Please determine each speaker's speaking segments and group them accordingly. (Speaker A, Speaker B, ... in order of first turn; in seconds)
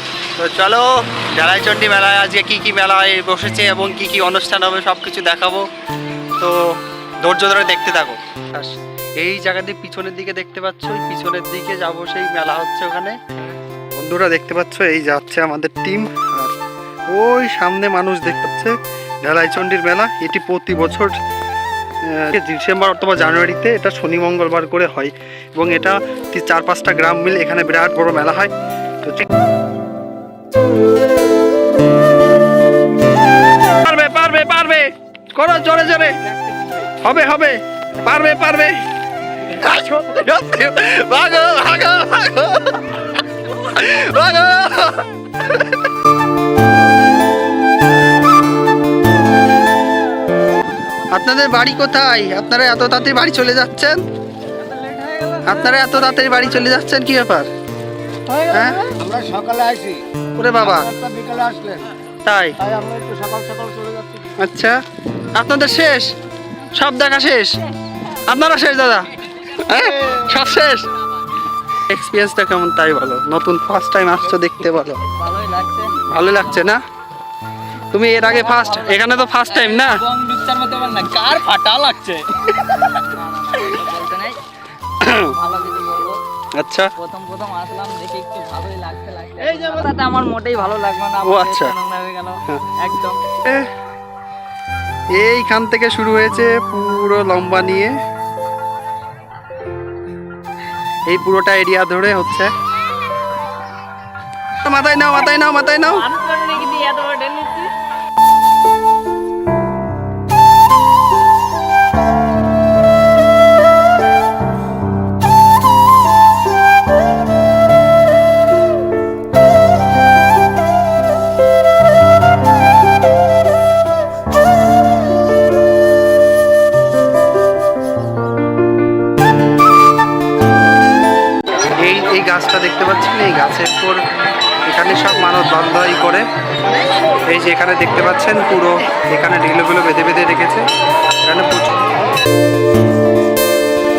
Speaker A: 0.3-5.7, 6.4-13.3, 13.9-16.5, 17.1-21.1, 22.0-29.3, 33.7-36.2, 36.8-45.8, 51.1-54.0, 55.4-57.5, 58.4-59.0, 60.4-61.0, 62.2-62.6, 64.3-64.8, 65.3-66.1, 66.7-67.6, 68.1-70.9, 71.8-75.0, 76.0-76.8, 77.9-80.0, 85.0-85.3, 86.6-86.9, 91.2-91.7, 93.4-93.7, 95.2-97.9, 101.1-102.5, 104.6-106.1, 131.8-134.0, 134.7-136.2, 137.3-140.7, 141.2-141.9
Speaker B: 36.3-36.8, 75.1-76.0, 78.2-84.4, 85.3-86.2, 87.0-93.2, 105.9-107.7
Speaker C: 59.0-60.0, 61.0-61.9, 62.6-64.2